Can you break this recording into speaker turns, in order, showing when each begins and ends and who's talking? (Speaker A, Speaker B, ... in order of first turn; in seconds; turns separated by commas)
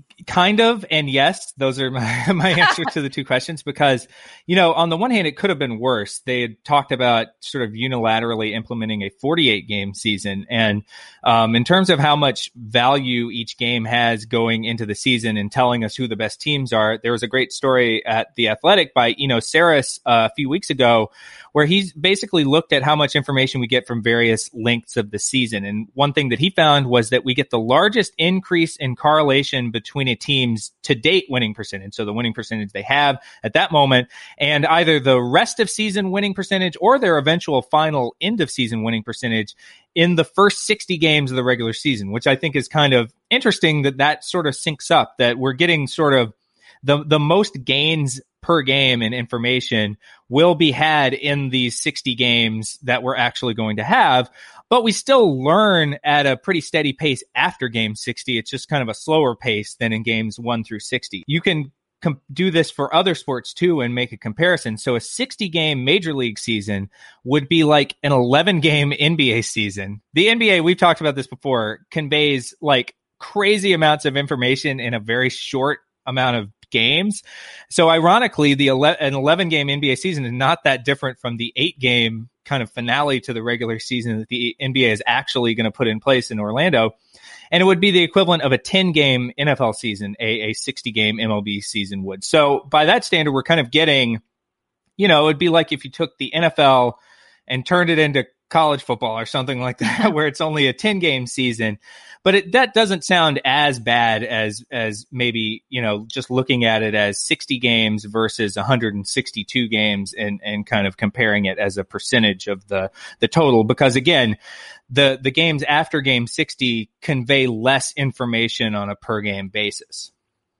Speaker A: 0.3-87.0, Speaker A: 87.5-94.2, Speaker A: 95.0-114.4, Speaker A: 114.9-120.1